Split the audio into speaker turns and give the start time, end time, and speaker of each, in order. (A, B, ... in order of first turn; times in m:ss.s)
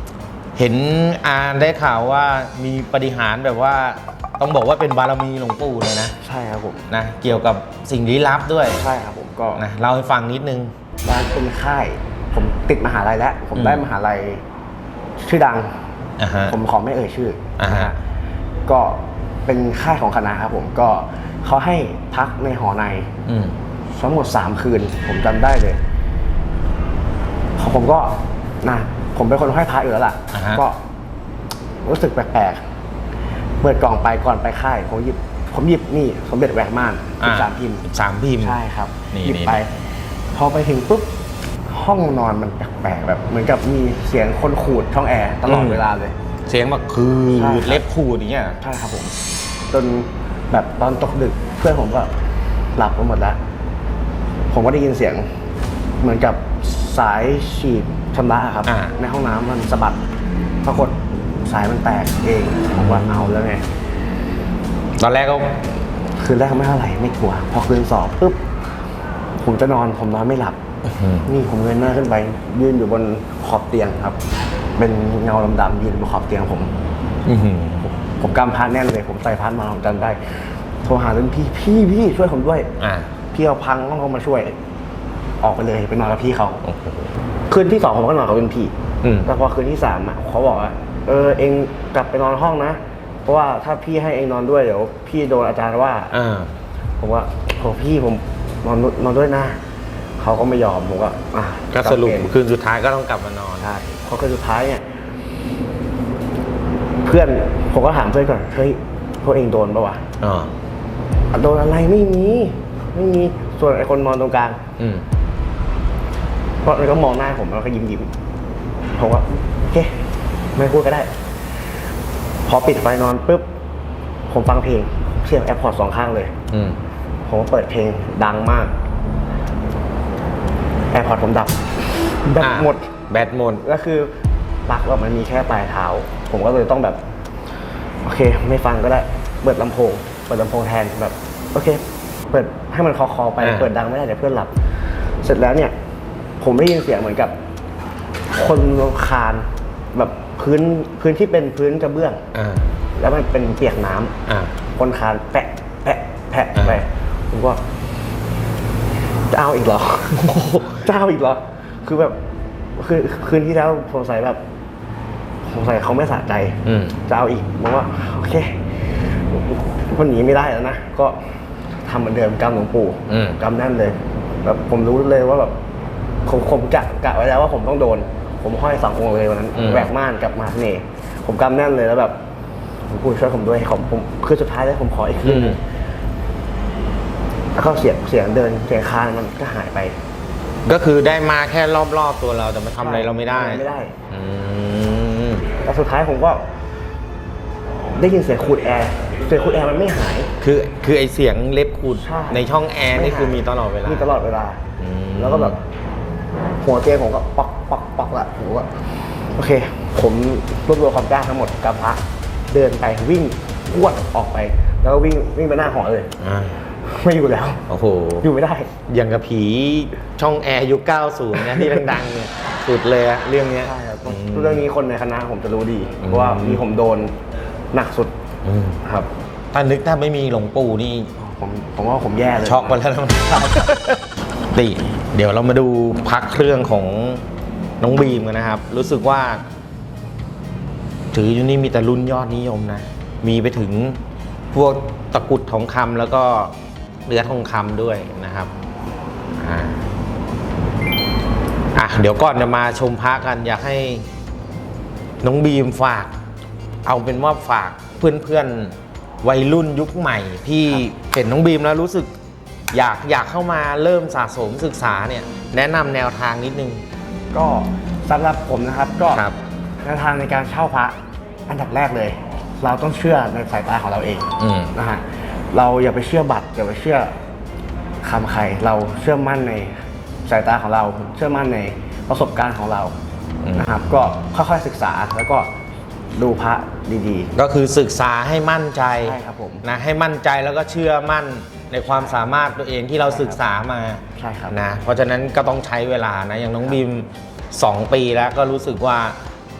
0:00.6-0:06.1 A
0:06.2-0:06.9 B
0:06.9-0:08.8 A
0:08.7-0:09.6 B
0:09.6-0:10.7 A
0:11.0-0:14.4 B
0:13.5-0:13.8 A
0:15.2-0:15.8 B
0:16.2-0:16.6 A
0:16.4-0:18.0 B
0:17.6-0:17.9 A
0:18.7-0:23.1 B
0:23.3-0:23.5 A
0:24.0-0:25.8 B
0:27.6-0:30.8 B
0:30.3-0:30.6 A
0:31.8-0:32.6 B
0:33.6-0:37.8 B
0:37.2-0:38.6 A
0:38.4-0:39.7 B
0:39.1-0:39.6 A
0:40.3-0:41.1 B
0:41.7-0:46.1 B
0:45.5-0:45.8 A
0:46.5-0:48.6 A
0:47.3-0:47.8 B
0:48.6-0:49.1 B
0:49.7-0:52.1 B
0:52.8-0:53.4 B
0:54.5-0:55.2 B
0:56.0-1:00.0 B
0:58.6-0:58.9 A
1:00.6-1:03.6 B
1:02.8-1:03.1 A
1:05.0-1:05.6 A
1:06.2-1:08.4 B
1:09.4-1:10.6 B
1:10.8-1:11.3 A
1:11.2-1:14.2 B
1:14.8-1:16.7 B
1:17.2-1:17.9 A
1:18.2-1:22.7 B
1:22.8-1:23.1 A
1:23.3-1:24.5 B
1:25.4-1:26.6 B
1:26.6-1:27.1 A
1:27.5-1:36.1 B
1:29.0-1:29.3 A
1:36.1-1:36.5 A
1:37.0-1:39.6 B
1:40.2-1:42.3 B
1:41.7-1:43.7 A
1:43.6-1:44.8 B
1:47.0-1:50.0 B
1:50.2-1:50.5 A
1:51.3-1:54.6 B
1:54.8-1:55.0 A
1:56.6-1:58.1 B
1:59.0-2:00.0 B
2:00.6-2:01.1 B
2:02.4-2:03.4 B
2:04.3-2:06.3 B
2:06.5-2:06.8 A
2:07.3-2:08.7 B
2:10.9-2:12.9 B
2:12.4-2:13.6 A
2:13.6-2:14.1 B
2:14.7-2:17.0 B
2:18.0-2:24.6 B
2:23.4-2:23.7 A
2:25.2-2:25.7 B
2:26.4-2:27.3 B
2:28.3-2:32.2 B
2:32.3-2:32.7 A
2:33.0-2:34.2 B
2:34.3-2:34.5 A
2:34.8-2:37.6 B
2:36.6-2:36.8 A
2:39.3-2:42.2 B
2:40.2-2:40.8 A
2:42.8-2:44.4 B
2:45.4-2:51.2 B
2:46.6-2:47.0 A
2:51.8-2:55.5 B
2:53.1-2:53.4 A
2:56.2-3:02.1 B
2:59.6-2:59.9 A
3:02.9-3:05.6 B
3:05.2-3:05.6 A
3:07.6-3:10.0 B
3:10.6-3:15.5 A
3:12.8-3:13.9 B
3:15.6-3:16.4 B
3:17.9-3:20.3 B
3:20.4-3:24.1 A
3:21.9-3:24.6 B
3:24.8-3:25.6 A
3:25.2-3:25.6 B
3:26.6-3:28.7 B
3:29.3-3:36.1 B
3:36.2-3:36.6 A
3:36.8-3:37.6 B
3:37.7-3:38.3 A
3:38.2-3:38.7 B
3:38.9-3:44.6 A
3:43.6-3:47.1 B
3:46.0-3:46.6 A
3:47.7-3:48.1 B
3:48.4-3:48.8 A
3:48.8-3:49.1 B
3:49.5-3:51.1 A
3:51.2-3:52.8 B
3:52.4-3:57.2 A
3:57.8-3:59.4 A
4:01.1-4:04.0 A
4:04.5-4:06.5 A
4:07.1-4:08.5 A
4:09.4-4:09.8 A
4:11.7-4:14.1 A
4:15.2-4:16.1 A
4:16.8-4:22.1 A
4:22.7-4:26.8 A
4:27.3-4:29.2 B
4:29.8-4:31.0 B
4:31.5-4:37.1 B
4:34.4-4:34.7 A
4:38.0-4:39.7 B
4:40.3-4:42.9 B
4:43.4-4:43.8 A
4:43.5-4:45.5 B
4:46.1-4:47.3 B
4:47.3-4:59.2 A
4:49.0-4:49.6 B
4:53.0-4:53.4 B
4:54.1-4:54.6 B